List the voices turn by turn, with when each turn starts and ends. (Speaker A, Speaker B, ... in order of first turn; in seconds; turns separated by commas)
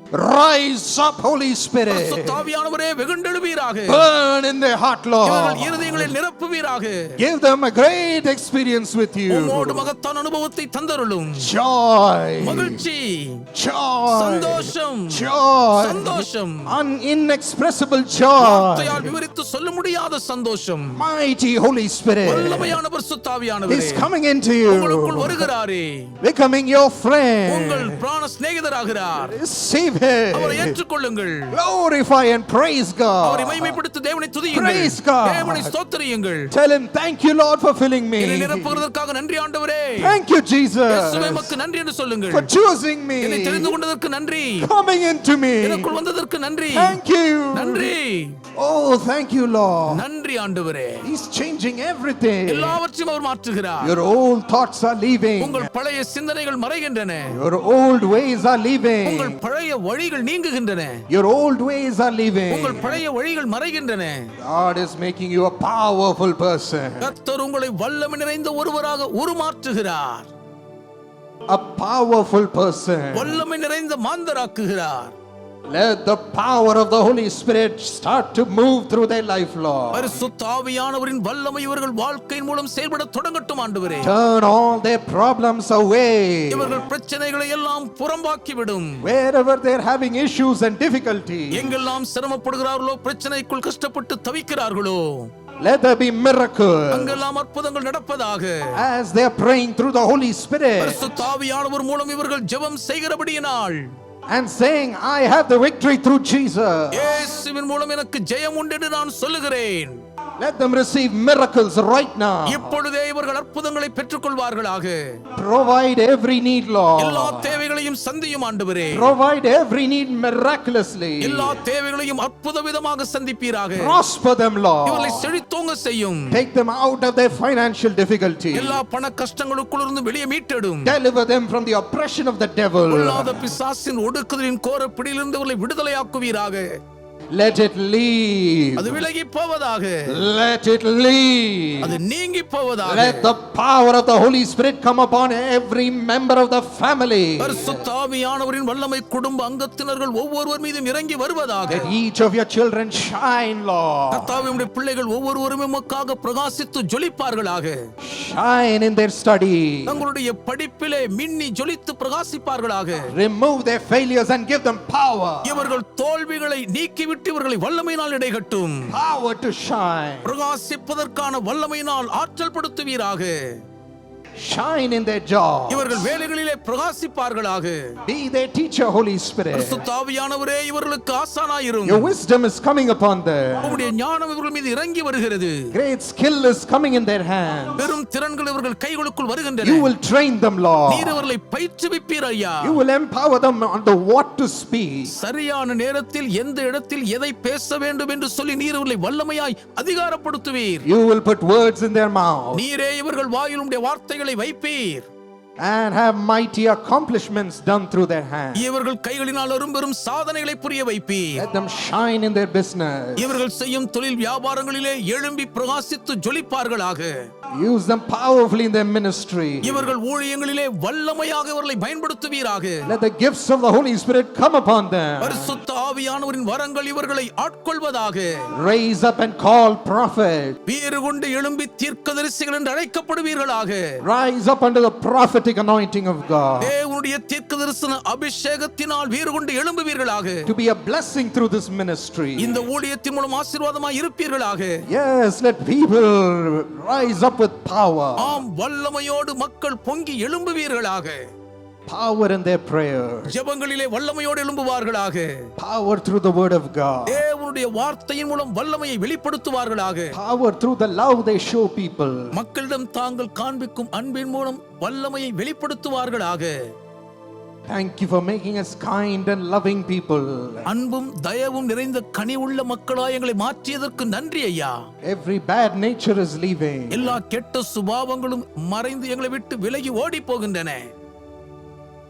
Speaker A: 0.1-2.4, Speaker B: 1.9-4.1, Speaker A: 3.9-6.1, Speaker B: 5.2-7.2, Speaker A: 7.2-9.9, Speaker B: 9.3-11.5, Speaker A: 11.4-12.8, Speaker B: 12.4-13.5, Speaker A: 13.6-19.2, Speaker B: 14.1-16.7, Speaker B: 18.4-21.0, Speaker A: 20.9-22.8, Speaker B: 22.2-24.1, Speaker A: 23.7-25.5, Speaker B: 24.7-26.1, Speaker A: 26.2-28.0, Speaker B: 27.5-29.4, Speaker A: 29.2-30.8, Speaker B: 30.3-31.6, Speaker A: 31.5-33.8, Speaker B: 33.2-36.5, Speaker A: 34.5-35.7, Speaker A: 36.5-38.8, Speaker B: 38.2-40.2, Speaker A: 40.0-41.6, Speaker B: 40.9-42.5, Speaker A: 42.3-43.8, Speaker B: 43.2-44.7, Speaker A: 44.6-45.9, Speaker B: 45.6-47.0, Speaker A: 46.7-47.9, Speaker B: 47.5-48.4, Speaker A: 48.6-50.0, Speaker B: 49.9-51.0, Speaker A: 51.0-52.8, Speaker B: 52.5-54.0, Speaker A: 53.8-55.7, Speaker B: 55.4-57.4, Speaker A: 57.3-59.4, Speaker B: 59.0-61.0, Speaker A: 61.1-63.0, Speaker B: 62.5-64.3, Speaker A: 64.4-67.1, Speaker B: 67.0-70.3, Speaker A: 71.5-73.4, Speaker B: 73.1-75.2, Speaker A: 75.7-80.2, Speaker B: 79.9-84.1, Speaker A: 84.0-86.8, Speaker B: 86.5-89.1, Speaker A: 89.0-91.8, Speaker B: 91.5-95.3, Speaker A: 95.6-97.2, Speaker B: 96.9-98.7, Speaker A: 98.7-101.3, Speaker B: 100.8-103.8, Speaker A: 104.3-107.3, Speaker B: 106.9-110.0, Speaker A: 110.4-112.8, Speaker B: 112.5-115.0, Speaker A: 115.4-117.6, Speaker B: 117.0-119.1, Speaker A: 118.9-121.6, Speaker B: 121.2-124.0, Speaker A: 123.8-125.3, Speaker B: 124.9-126.4, Speaker A: 126.3-128.8, Speaker B: 128.5-131.0, Speaker A: 130.8-133.6, Speaker B: 132.9-136.7, Speaker A: 137.3-139.0, Speaker B: 138.8-140.1, Speaker A: 140.1-142.0, Speaker B: 141.8-143.3, Speaker A: 142.8-147.8, Speaker B: 147.4-151.9, Speaker A: 151.7-154.5, Speaker B: 154.1-157.8, Speaker A: 158.0-160.0, Speaker B: 159.9-163.1, Speaker A: 163.1-165.7, Speaker B: 165.4-168.9, Speaker A: 168.9-170.3, Speaker B: 170.2-173.5, Speaker A: 174.4-176.1, Speaker B: 175.7-177.8, Speaker A: 178.1-179.8, Speaker B: 179.5-182.1, Speaker A: 181.8-183.8, Speaker B: 183.6-185.7, Speaker A: 185.7-187.9, Speaker B: 187.8-189.9, Speaker A: 189.6-191.2, Speaker B: 190.9-192.8, Speaker A: 192.6-195.1, Speaker B: 195.1-200.8, Speaker A: 200.8-202.6, Speaker B: 202.5-205.1, Speaker A: 205.6-208.7, Speaker B: 208.6-211.4, Speaker A: 211.4-213.4, Speaker B: 213.2-217.1, Speaker A: 217.6-219.9, Speaker B: 219.6-222.9, Speaker A: 222.8-225.6, Speaker B: 225.2-228.3, Speaker A: 228.6-230.6, Speaker B: 230.7-233.8, Speaker A: 234.0-236.7, Speaker B: 236.6-240.5, Speaker A: 240.5-242.6, Speaker B: 242.4-244.8, Speaker A: 244.9-248.4, Speaker B: 248.2-251.2, Speaker A: 251.9-253.3, Speaker B: 253.3-255.4, Speaker A: 255.6-257.2, Speaker B: 257.1-260.2, Speaker A: 260.1-262.3, Speaker B: 262.3-266.6, Speaker A: 267.7-270.7, Speaker B: 270.7-274.8, Speaker A: 275.1-277.2, Speaker B: 276.9-280.9